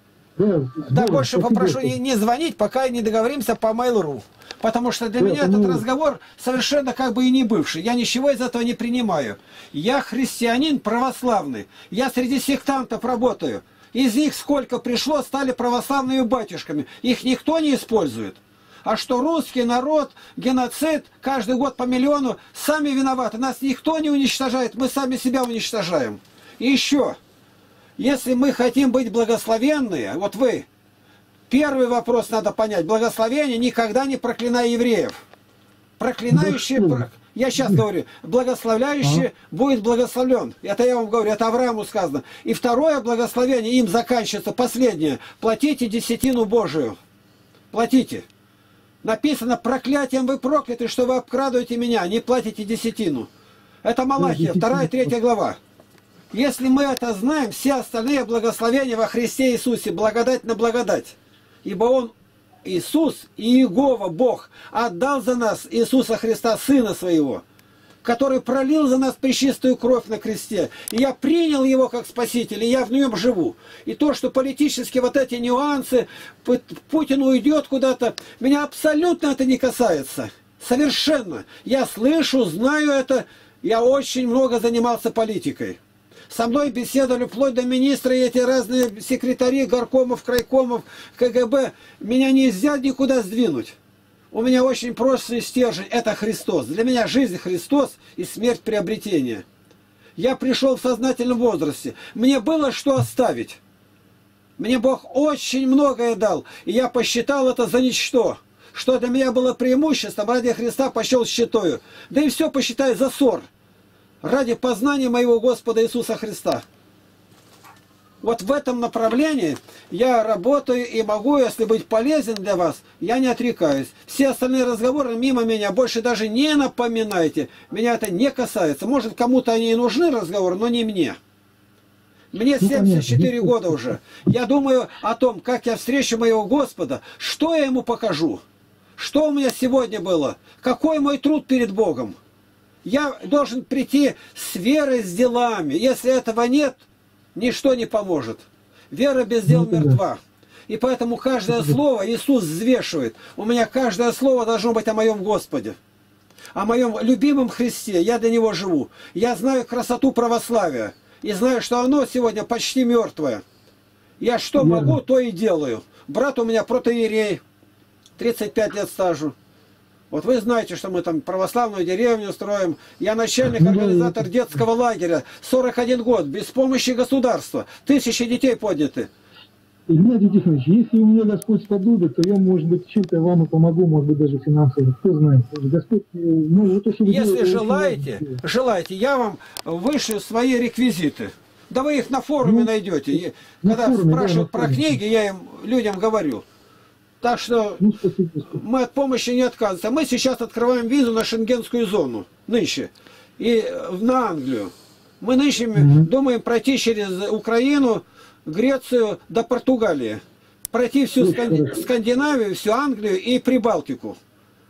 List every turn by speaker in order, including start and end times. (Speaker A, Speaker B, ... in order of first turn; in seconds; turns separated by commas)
Speaker A: 0.3-2.0, Speaker B: 0.9-27.2, Speaker A: 5.2-5.8, Speaker B: 28.0-30.7, Speaker B: 31.5-35.2, Speaker B: 36.0-47.0, Speaker A: 36.3-37.8, Speaker A: 39.0-39.3, Speaker B: 47.7-48.2, Speaker B: 49.0-53.3, Speaker B: 53.8-55.6, Speaker A: 54.2-55.1, Speaker B: 56.3-62.1, Speaker B: 62.6-67.4, Speaker B: 68.0-93.8, Speaker B: 94.3-99.4, Speaker B: 100.2-103.6, Speaker B: 104.6-113.5, Speaker B: 114.2-116.6, Speaker B: 118.2-131.2, Speaker B: 132.3-138.4, Speaker A: 132.6-134.1, Speaker B: 139.0-142.2, Speaker B: 142.8-146.8, Speaker B: 147.3-155.8, Speaker A: 149.4-150.0, Speaker A: 151.5-151.8, Speaker B: 156.5-163.4, Speaker B: 164.2-167.4, Speaker A: 164.6-165.0, Speaker B: 168.2-169.3, Speaker B: 170.1-179.1, Speaker A: 173.5-174.6, Speaker A: 179.9-188.4, Speaker B: 187.0-196.4, Speaker A: 192.4-195.0, Speaker B: 197.2-197.8, Speaker A: 197.8-198.6, Speaker B: 198.5-210.2, Speaker A: 205.7-206.1, Speaker B: 210.7-214.2, Speaker A: 211.2-211.8